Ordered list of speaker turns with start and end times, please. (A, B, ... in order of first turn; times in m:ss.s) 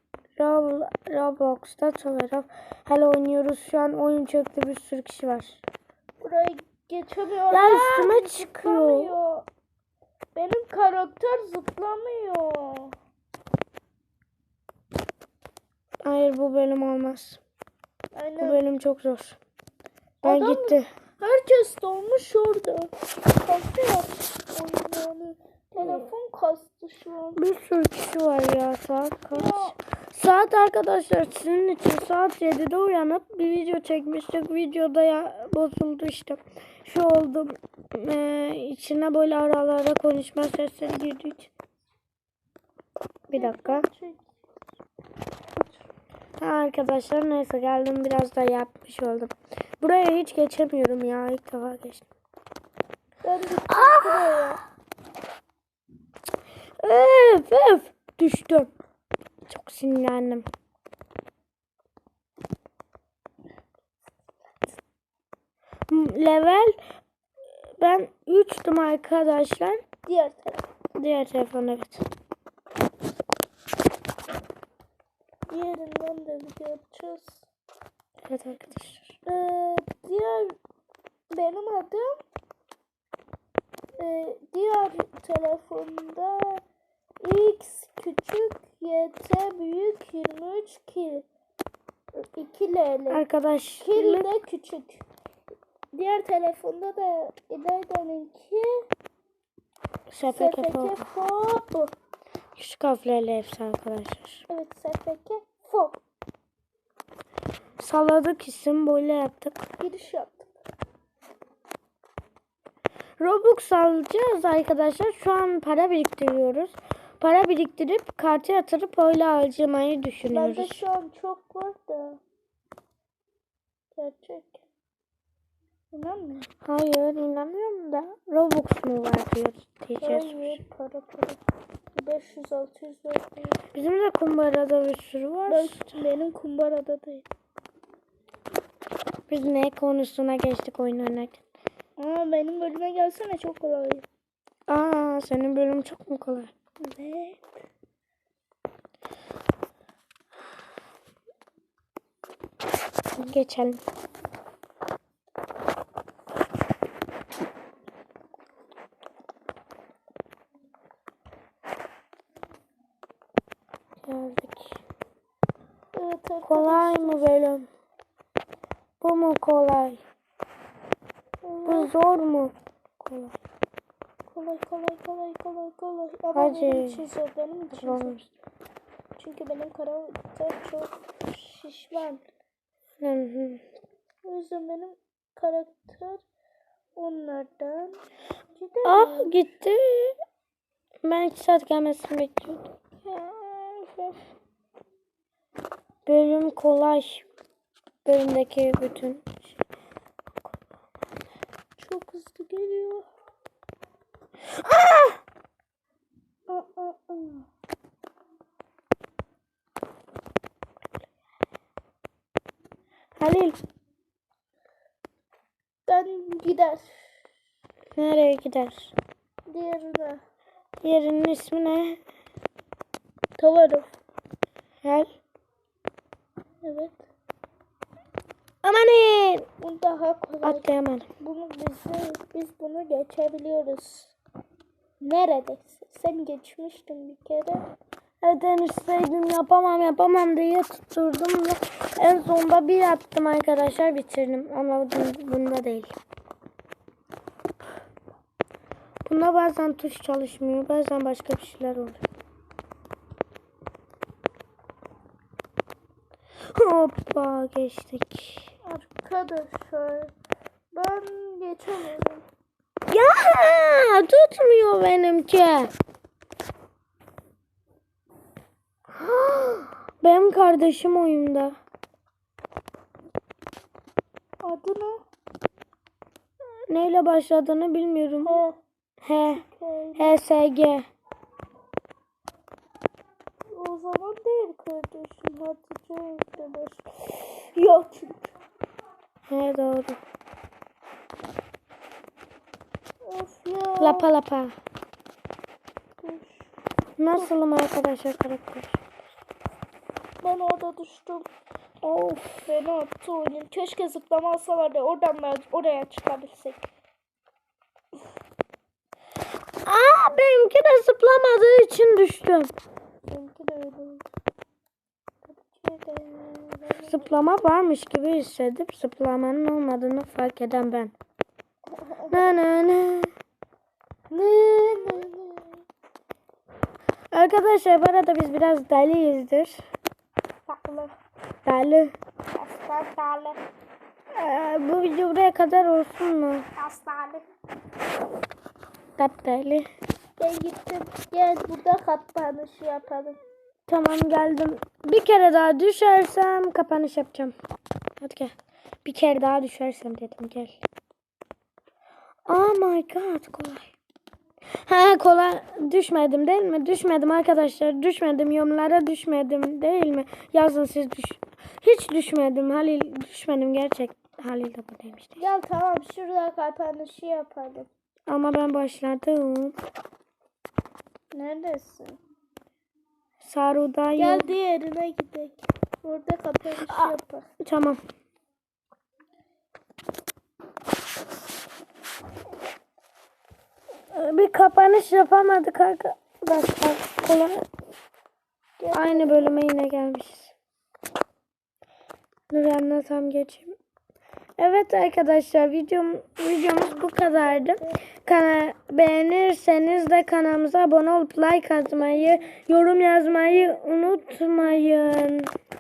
0:00.4-0:05.6 A
0:06.2-0:09.5 B
0:07.5-0:09.1 A
0:10.4-0:12.9 B
0:16.0-0:17.4 A
0:18.2-0:18.6 B
0:18.4-0:19.4 A
0:20.2-0:22.9 B
0:20.2-0:20.9 A
0:23.4-0:27.4 B
0:27.4-0:41.5 A
0:29.3-0:29.8 B
0:43.3-0:43.9 A
0:43.3-0:44.2 B
0:46.4-0:52.1 A
0:53.2-0:54.6 B
0:53.7-0:54.6 A
0:56.8-0:58.7 A
0:59.5-1:00.5 A
1:05.9-1:06.8 A
1:07.8-1:09.8 A
1:10.1-1:10.7 B
1:11.0-1:12.1 A
1:15.5-1:17.5 B
1:18.3-1:19.2 A
1:19.3-1:20.6 B
1:21.3-1:22.2 B
1:24.0-1:26.6 B
1:27.2-1:31.3 B
1:32.2-1:33.2 B
1:33.1-1:34.3 A
1:33.8-1:35.0 B
1:35.9-1:38.9 B
1:40.1-1:41.1 A
1:40.3-1:41.9 B
1:42.6-1:44.4 A
1:44.5-1:46.0 B
1:47.8-1:49.6 A
1:49.8-1:50.5 B
1:53.2-2:00.8 A
2:00.3-2:02.2 B
2:04.0-2:04.6 B
2:05.9-2:06.5 B
2:06.6-2:10.6 A
2:10.0-2:11.4 B
2:12.0-2:13.6 B
2:13.7-2:16.0 A
2:15.5-2:17.3 B
2:19.3-2:21.4 A
2:22.0-2:24.1 B
2:24.7-2:26.5 A
2:26.8-2:27.4 B
2:33.2-2:33.8 A
2:44.0-2:44.8 A
2:45.9-2:47.3 B
2:46.4-2:47.7 A
2:49.0-2:50.0 A
2:51.4-2:51.9 B
2:51.7-2:53.4 A
2:54.3-2:58.2 B
2:56.4-2:57.0 A
2:57.7-2:58.3 A
2:59.2-3:02.2 B
3:03.0-3:03.6 A
3:04.2-3:06.2 B
3:07.0-3:08.0 B
3:08.6-3:09.5 B
3:08.8-3:10.2 A
3:11.0-3:12.7 A
3:13.0-3:14.2 B
3:16.1-3:17.3 A
3:18.0-3:19.6 A
3:21.8-3:23.1 B
3:24.6-3:25.2 A
3:26.5-3:27.4 B
3:33.2-3:33.6 A
3:35.9-3:37.2 B
3:38.0-3:38.9 A
3:39.5-3:40.2 B
3:40.8-3:42.0 A
3:43.4-3:43.9 B
3:44.8-3:45.1 A
3:46.6-3:47.0 B
3:48.6-3:49.5 A
3:49.6-3:50.7 B
3:50.4-3:51.1 A
3:51.2-3:54.1 B
3:55.0-3:57.6 B
3:58.2-4:05.9 A
4:09.0-4:12.0 A
4:16.5-4:18.5 A
4:18.6-4:20.1 B
4:20.7-4:22.2 B
4:22.9-4:25.7 A
4:28.9-4:31.6 A
4:34.4-4:35.0 B
4:36.7-4:38.4 A
4:38.2-4:38.6 B
4:39.0-4:39.4 A
4:39.4-4:40.2 B
4:40.0-4:40.9 A
4:43.5-4:48.3 B
4:49.3-4:50.0 A
4:53.0-4:54.1 B
4:53.8-4:54.6 A
4:56.0-4:56.5 B
4:57.0-4:58.8 A
5:00.2-5:01.3 B
5:01.8-5:02.5 A
5:02.4-5:06.7 B
5:09.6-5:12.5 A
5:13.1-5:14.1 B
5:15.3-5:17.1 B
5:16.9-5:20.9 A
5:21.8-5:22.3 B
5:22.1-5:23.1 A
5:24.1-5:25.6 B
5:27.1-5:29.6 A
5:30.5-5:31.0 B
5:31.4-5:31.9 A
5:32.4-5:33.4 B
5:34.1-5:36.5 A
5:36.6-5:37.2 B
5:39.0-5:39.7 A
5:40.2-5:43.2 B
5:43.7-5:47.4 A
5:48.0-5:50.6 A
5:52.3-5:53.7 A
5:54.6-6:05.3 A
6:05.2-6:07.7 B
6:08.1-6:09.6 A
6:11.1-6:12.0 B
6:13.2-6:14.3 A
6:14.0-6:17.3 B
6:17.4-6:17.8 A
6:23.9-6:27.4 A
6:28.6-6:29.4 B
6:28.7-6:30.3 A
6:32.3-6:33.5 A
6:34.4-6:45.3 A
6:37.0-6:37.8 B
6:41.9-6:43.7 B